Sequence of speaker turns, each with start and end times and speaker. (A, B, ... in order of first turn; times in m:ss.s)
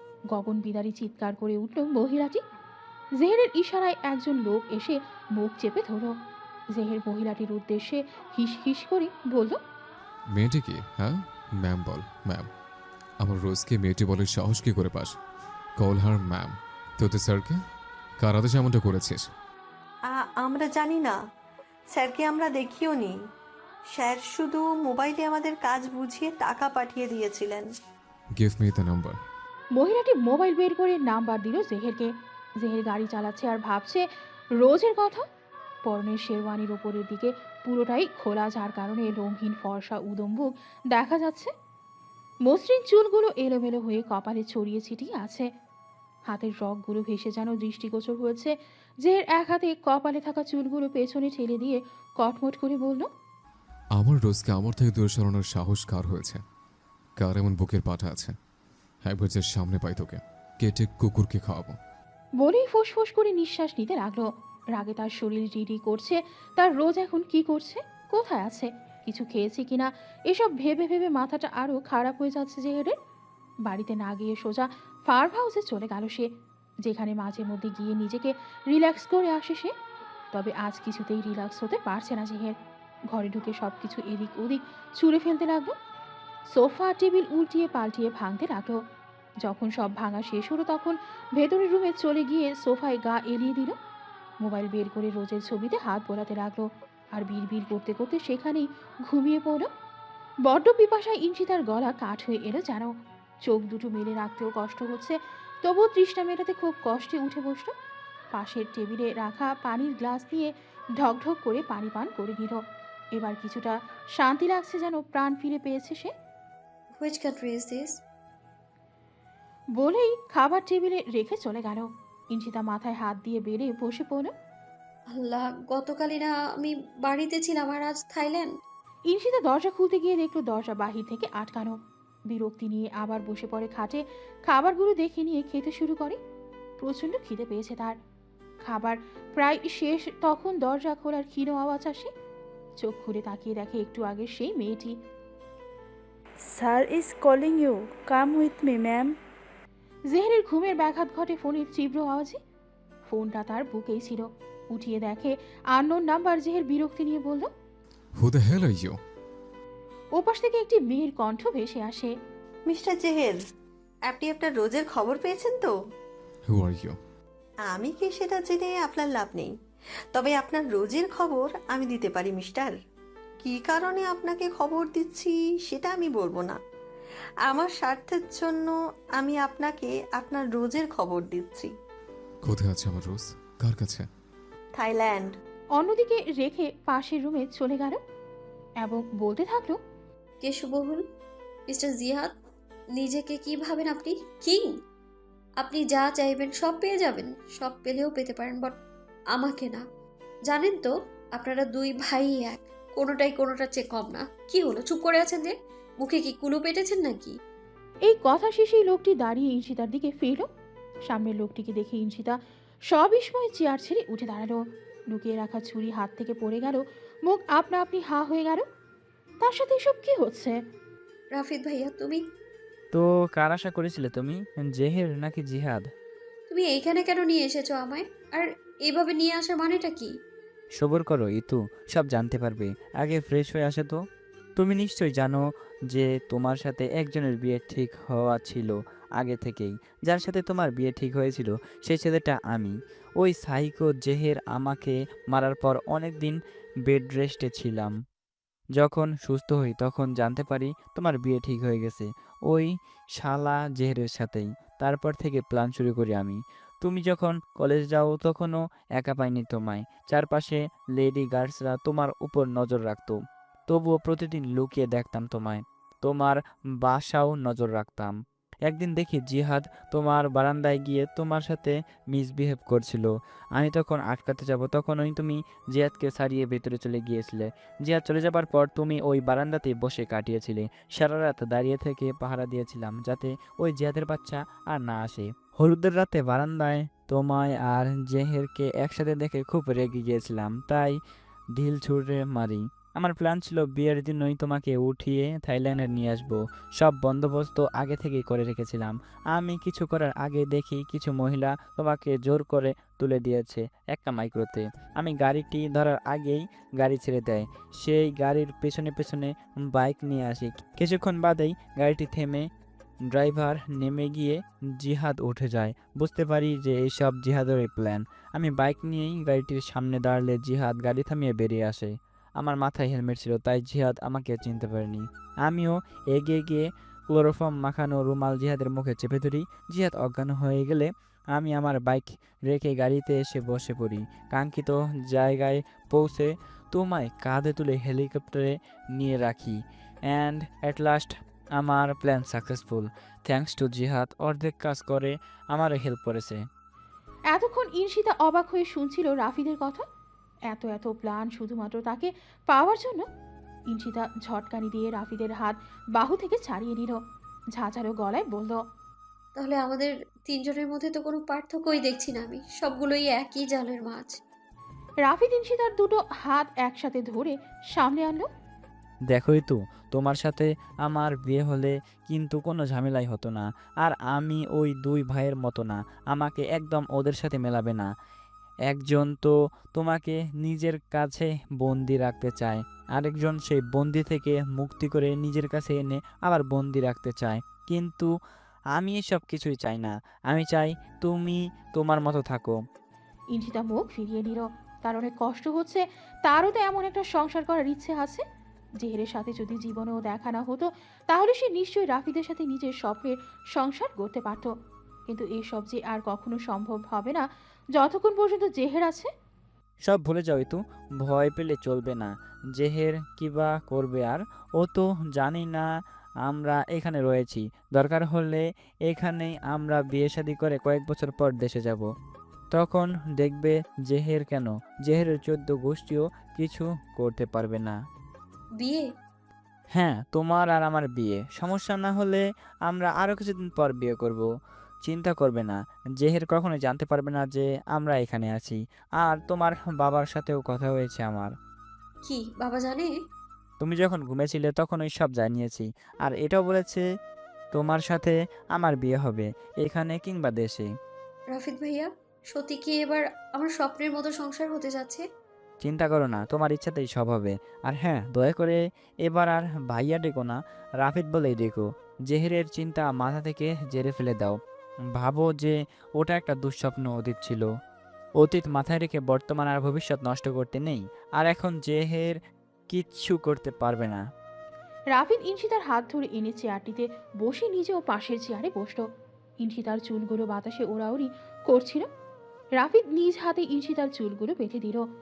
0:00.3-0:02.4 A
0:03.2-0:06.1 A
0:06.7-0:09.6 A
0:10.3-0:12.5 B
0:13.2-0:15.2 B
0:15.8-0:17.6 B
0:18.2-0:19.3 B
0:20.1-0:21.2 C
0:21.9-0:23.2 C
0:23.9-0:27.7 C
0:28.4-0:29.2 B
0:29.7-0:34.1 A
0:34.6-0:35.2 A
0:35.8-0:41.5 A
0:42.4-0:45.5 A
0:46.3-0:53.1 A
0:53.9-0:56.4 B
0:57.2-0:58.4 B
0:59.0-1:01.8 B
1:02.4-1:12.9 A
1:13.6-1:16.3 A
1:16.8-1:19.7 A
1:20.3-1:22.6 A
1:23.1-1:25.7 A
1:26.5-1:28.8 A
1:29.4-1:33.7 A
1:34.4-1:39.7 A
1:40.4-1:47.7 A
1:48.3-1:52.6 A
1:53.1-1:56.1 A
1:57.0-1:58.0 D
1:59.8-2:04.3 A
2:05.1-2:08.5 D
2:09.1-2:11.8 A
2:12.3-2:16.2 A
2:16.8-2:18.0 A
2:18.6-2:22.1 A
2:22.8-2:25.0 A
2:26.5-2:29.1 E
2:30.1-2:32.4 A
2:33.1-2:37.5 A
2:38.2-2:39.0 B
2:40.1-2:42.1 A
2:42.7-2:43.4 C
2:44.1-2:45.7 C
2:46.5-2:47.0 B
2:47.7-2:49.5 C
2:50.1-2:52.7 C
2:53.4-2:56.6 C
2:57.4-3:01.7 C
3:02.4-3:04.0 B
3:04.8-3:05.3 C
3:05.8-3:08.0 A
3:08.8-3:09.8 A
3:10.4-3:11.0 D
3:11.7-3:12.3 D
3:12.9-3:14.7 D
3:15.6-3:18.7 D
3:19.3-3:19.8 D
3:20.5-3:27.3 D
3:28.0-3:30.5 A
3:31.1-3:32.4 A
3:32.9-3:38.6 A
3:39.4-3:40.6 A
3:41.3-3:42.2 D
3:42.9-3:45.9 F
3:46.5-3:50.1 D
3:50.8-3:54.0 F
3:54.6-4:07.9 F
4:08.7-4:51.0 F
4:51.6-5:12.5 F
5:13.0-5:46.5 F
5:47.3-5:49.8 A
5:50.5-5:53.0 A
5:53.7-5:57.0 A
5:57.6-5:58.6 A
5:59.4-6:04.2 D
6:05.0-6:08.3 A
6:09.1-6:17.9 F
6:18.7-6:28.1 F
6:28.7-6:32.6 F
6:33.3-6:38.2 A
6:38.8-6:44.5 A
6:45.1-6:49.1 A
6:49.8-6:55.7 F
6:56.2-7:01.9 F
7:02.5-7:07.8 F
7:08.6-7:08.8 D
7:09.7-7:14.3 F
7:14.8-7:21.3 F
7:22.0-7:22.9 D
7:23.6-7:26.8 F
7:27.5-7:30.7 F
7:31.3-7:35.0 D
7:35.6-7:44.4 F
7:44.9-7:47.5 F
7:48.2-7:52.2 F
7:52.7-7:54.0 F
7:54.9-7:58.8 A
7:59.4-8:01.9 A
8:02.6-8:04.8 A